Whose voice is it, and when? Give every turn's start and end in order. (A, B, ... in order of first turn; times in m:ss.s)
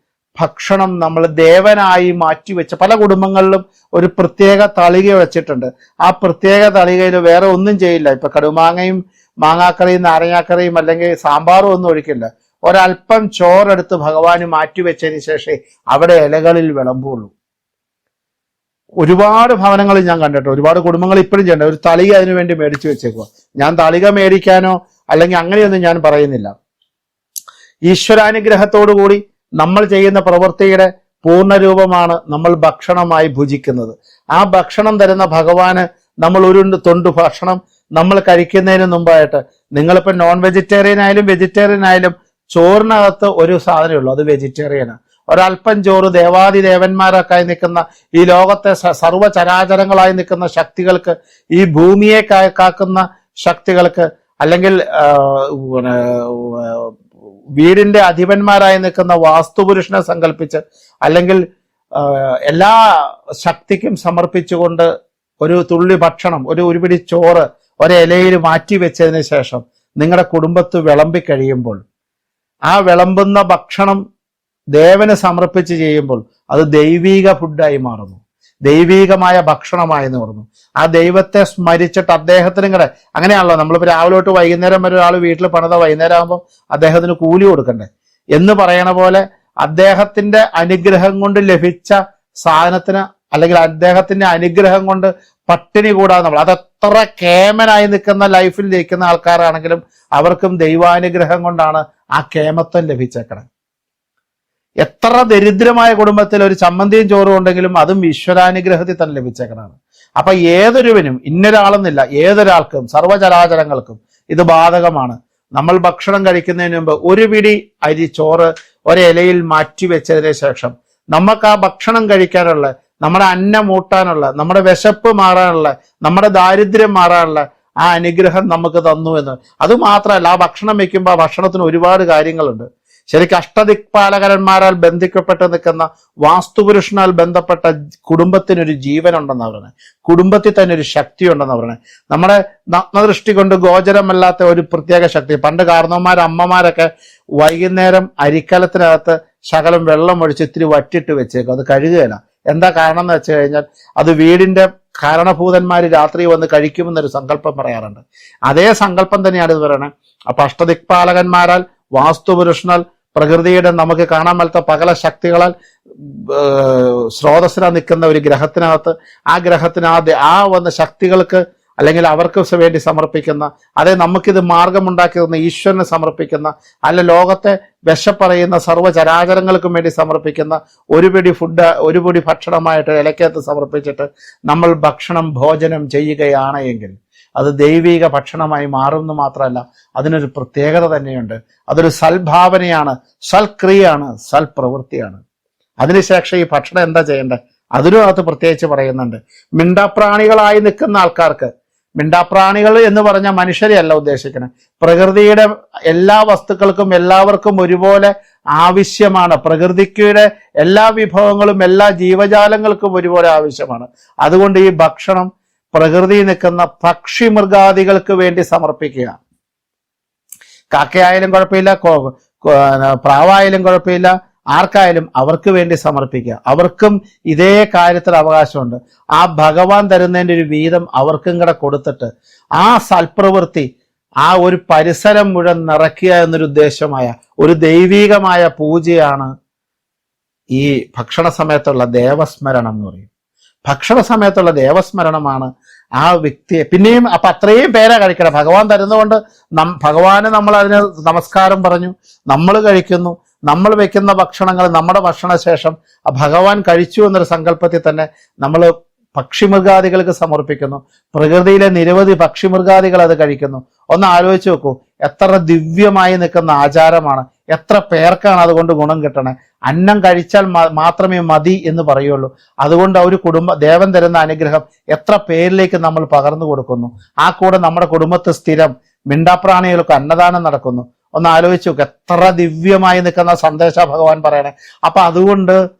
0:00.4-0:17.3 A
0:19.0-0:26.5 A
0:27.9-0:56.9 A
0:57.6-1:01.4 A
1:02.0-1:04.9 A
1:05.4-1:11.8 A
1:12.7-1:14.0 A
1:14.7-1:43.4 A
1:44.8-3:15.2 A
3:15.8-3:39.2 A
3:40.7-3:53.7 A
3:54.2-3:59.3 A
4:00.5-4:03.1 A
4:03.6-4:45.6 A